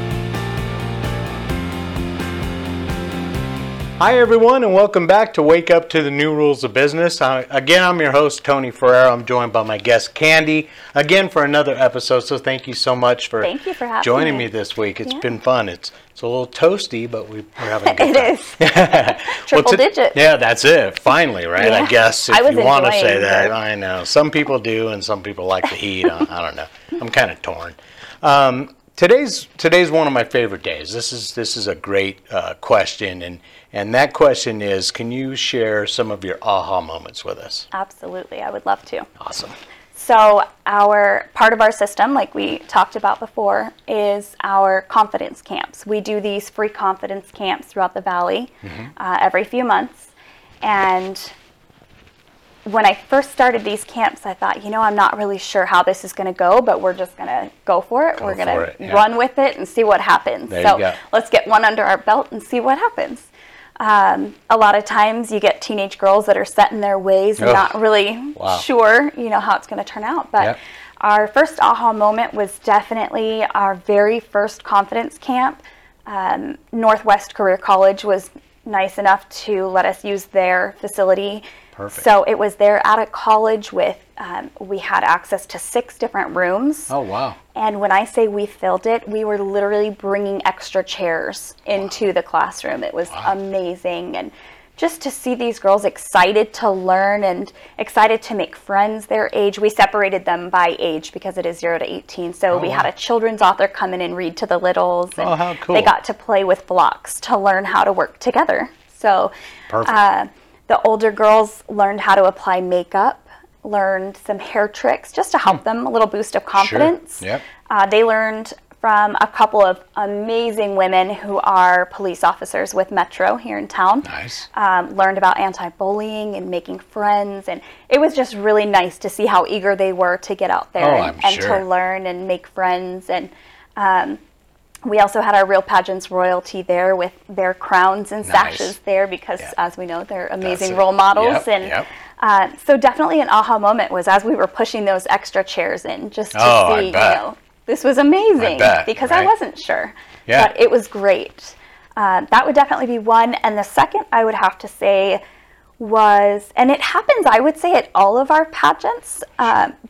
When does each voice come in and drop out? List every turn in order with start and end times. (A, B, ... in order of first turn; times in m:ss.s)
0:04.0-0:37.7 A
0:13.4-0:14.5 B
0:17.8-0:20.2 B
0:21.6-0:23.5 B
0:37.7-0:39.1 B
0:39.2-0:39.5 A
0:39.9-0:51.3 B
0:48.6-0:48.9 A
0:52.6-1:26.9 B
0:58.2-0:59.0 A
1:00.5-1:01.0 A
1:07.4-1:07.7 A
1:08.3-1:08.6 A
1:21.7-1:22.0 A
1:26.9-1:27.4 A
1:27.5-1:49.3 B
1:42.5-1:42.9 A
1:45.2-1:45.9 A
1:49.7-1:49.9 A
1:49.8-2:14.2 B
1:56.5-1:57.4 A
2:04.0-2:04.4 A
2:10.8-2:11.6 A
2:14.8-2:35.2 B
2:18.2-2:18.7 A
2:20.4-2:21.9 A
2:26.3-2:27.2 A
2:28.4-2:29.3 A
2:30.3-2:30.5 A
2:35.8-2:39.7 B